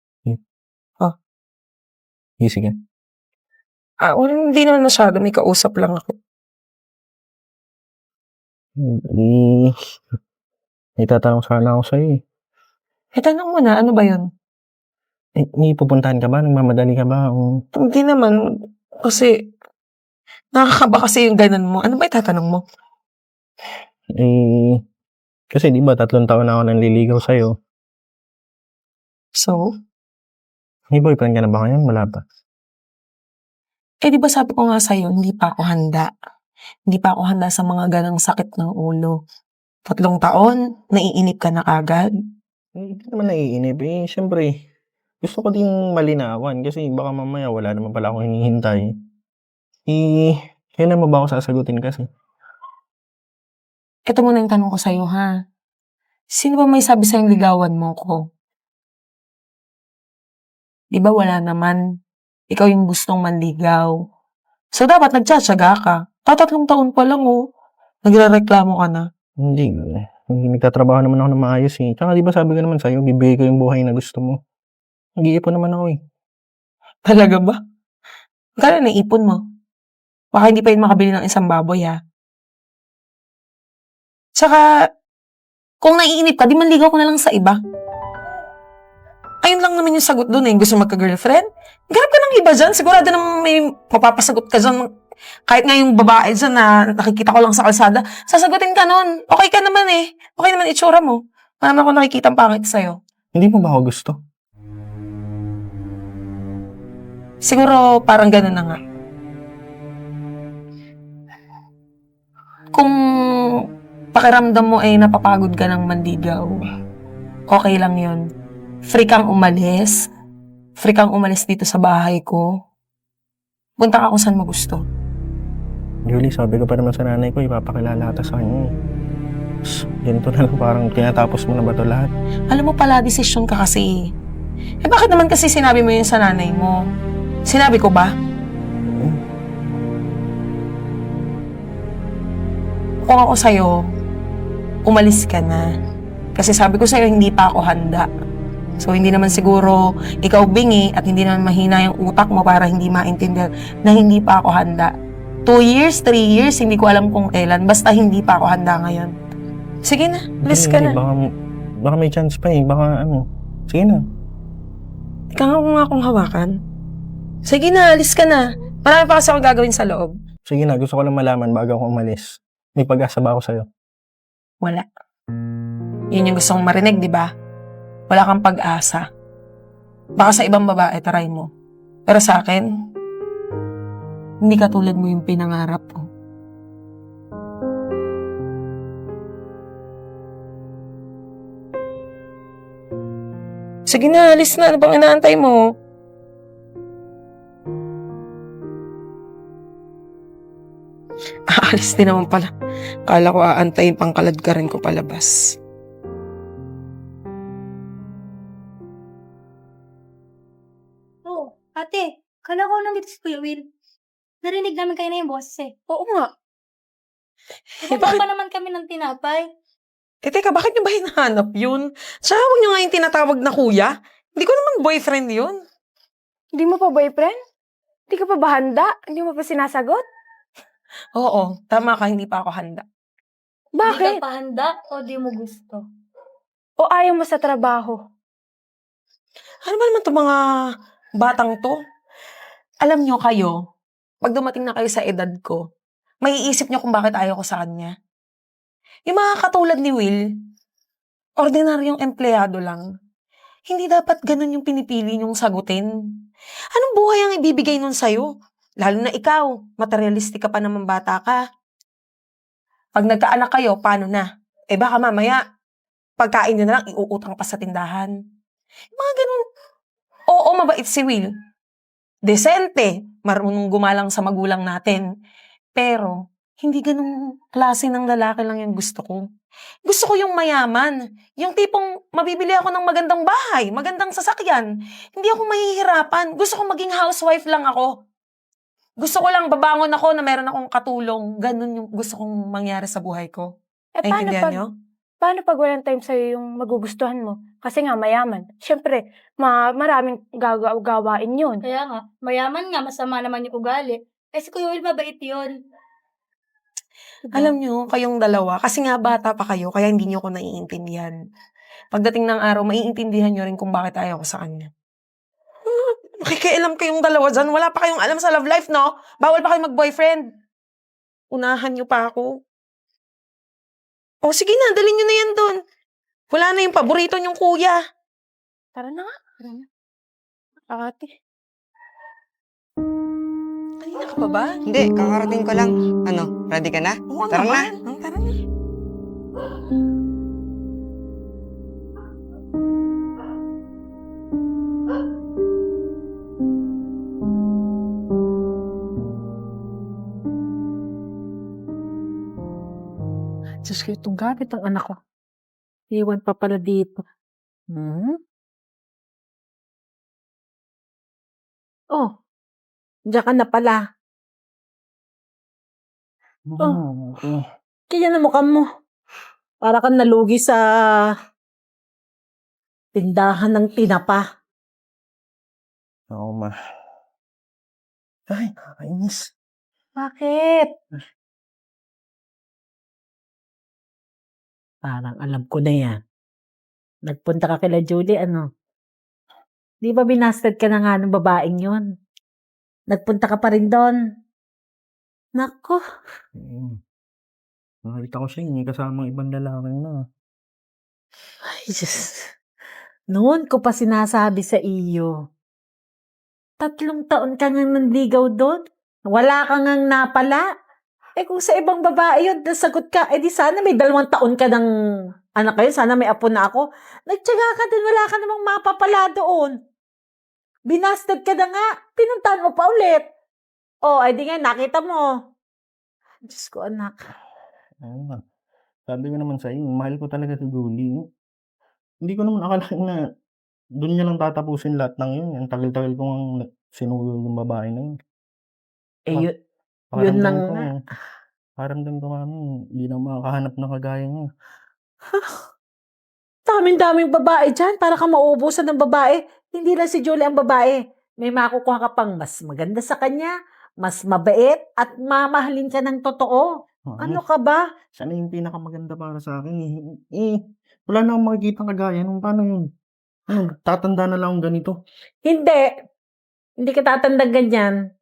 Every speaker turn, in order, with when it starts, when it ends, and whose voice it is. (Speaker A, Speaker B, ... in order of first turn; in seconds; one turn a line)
Speaker A: 2.4-2.7
Speaker B: 4.0-6.1
Speaker A: 8.8-9.7
Speaker A: 11.0-12.2
Speaker B: 13.1-14.2
Speaker A: 15.4-17.4
Speaker B: 17.7-18.4
Speaker B: 19.0-19.3
Speaker B: 20.6-22.6
Speaker A: 24.2-24.8
Speaker A: 25.5-27.5
Speaker B: 29.4-29.6
Speaker A: 30.9-32.2
Speaker B: 34.0-36.1
Speaker B: 36.9-39.2
Speaker B: 39.9-42.1
Speaker A: 42.8-44.5
Speaker A: 45.2-48.9
Speaker A: 49.9-52.1
Speaker B: 54.1-55.3
Speaker B: 56.3-58.2
Speaker B: 60.9-61.8
Speaker B: 62.5-63.9
Speaker B: 64.7-67.4
Speaker B: 68.0-69.0
Speaker A: 69.4-74.4
Speaker A: 75.2-76.0
Speaker B: 77.1-77.6
Speaker B: 78.6-79.4
Speaker B: 80.3-82.0
Speaker B: 84.4-84.6
Speaker B: 85.8-87.6
Speaker B: 89.4-94.9
Speaker B: 95.5-103.0
Speaker A: 103.3-104.2
Speaker B: 107.4-108.8
Speaker B: 114.1-116.6
Speaker B: 117.5-118.2
Speaker B: 118.9-120.1
Speaker B: 120.8-122.4
Speaker B: 123.8-124.8
Speaker A: 126.1-128.7
Speaker A: 130.0-132.1
Speaker B: 132.5-133.9
Speaker B: 134.8-136.8
Speaker B: 137.4-138.1
Speaker A: 138.9-139.2
Speaker B: 143.0-143.7
Speaker B: 144.8-145.6
Speaker B: 146.3-148.1
Speaker B: 148.8-154.9
Speaker B: 155.4-159.1
Speaker B: 159.8-161.0
Speaker A: 160.4-161.2
Speaker A: 161.8-164.0
Speaker B: 165.3-166.5
Speaker B: 167.4-170.1
Speaker A: 170.5-173.7
Speaker B: 176.1-177.3
Speaker B: 178.1-179.0
Speaker B: 180.2-181.5
Speaker B: 182.1-182.6
Speaker B: 184.4-186.0
Speaker B: 193.9-195.6
Speaker B: 201.6-202.5
Speaker B: 203.1-205.3
Speaker C: 211.2-213.6
Speaker C: 214.4-215.7
Speaker D: 215.9-216.3
Speaker B: 217.8-218.2
Speaker C: 217.8-219.4
Speaker B: 220.2-225.6
Speaker D: 226.5-227.4
Speaker D: 228.1-230.0
Speaker B: 231.1-232.8
Speaker D: 233.8-234.2
Speaker C: 233.8-235.8
Speaker D: 236.8-238.0
Speaker B: 239.7-240.4
Speaker B: 241.2-241.8
Speaker B: 242.8-243.5
Speaker B: 244.2-245.6
Speaker B: 246.2-247.9
Speaker B: 249.1-250.2
Speaker B: 251.4-252.8
Speaker B: 253.7-255.9
Speaker B: 256.7-258.3
Speaker B: 258.8-261.4
Speaker B: 262.9-265.4
Speaker B: 266.2-268.1
Speaker B: 269.0-269.4
Speaker B: 270.3-271.3
Speaker B: 272.2-275.0
Speaker B: 275.8-279.2
Speaker B: 279.9-287.9
Speaker B: 289.0-293.5
Speaker D: 294.0-294.6
Speaker B: 294.0-294.7
Speaker D: 295.2-301.6
Speaker C: 301.6-305.6
Speaker B: 307.3-311.1
Speaker B: 311.9-314.7
Speaker B: 315.6-320.2
Speaker B: 321.3-322.3
Speaker B: 324.2-325.6
Speaker B: 326.3-327.8
Speaker B: 330.8-331.0
Speaker B: 333.8-334.6
Speaker E: 334.6-337.7
Speaker B: 337.1-338.4
Speaker F: 353.6-355.0
Speaker F: 355.9-357.0
Speaker F: 357.7-358.1
Speaker F: 363.1-363.8
Speaker A: 366.5-367.4
Speaker F: 367.9-368.6
Speaker F: 369.6-371.1
Speaker F: 372.9-374.2
Speaker A: 376.1-376.5
Speaker A: 378.3-379.3
Speaker F: 380.0-380.7
Speaker F: 384.8-386.0
Speaker F: 387.1-388.4
Speaker F: 389.8-391.9
Speaker F: 392.9-394.0
Speaker F: 395.4-395.8
Speaker A: 396.4-396.8
Speaker A: 397.8-399.9
Speaker F: 401.4-402.3
Speaker F: 403.1-405.1
Speaker F: 406.6-408.6
Speaker F: 409.1-410.4
Speaker F: 411.2-414.7
Speaker F: 415.4-419.5
Speaker F: 420.7-423.0
Speaker F: 423.8-425.1
Speaker F: 426.3-426.9
Speaker A: 427.8-428.2
Speaker A: 428.9-431.0
Speaker A: 432.0-433.0
Speaker A: 433.8-437.9
Speaker F: 439.1-439.3
Speaker A: 439.9-440.7
Speaker F: 439.9-440.6
Speaker A: 441.6-444.2
Speaker F: 446.4-456.5
Speaker A: 456.9-457.2
Speaker F: 457.0-457.6
Speaker A: 457.9-462.6
Speaker A: 463.3-464.8
Speaker F: 465.2-465.7
Speaker F: 466.6-467.8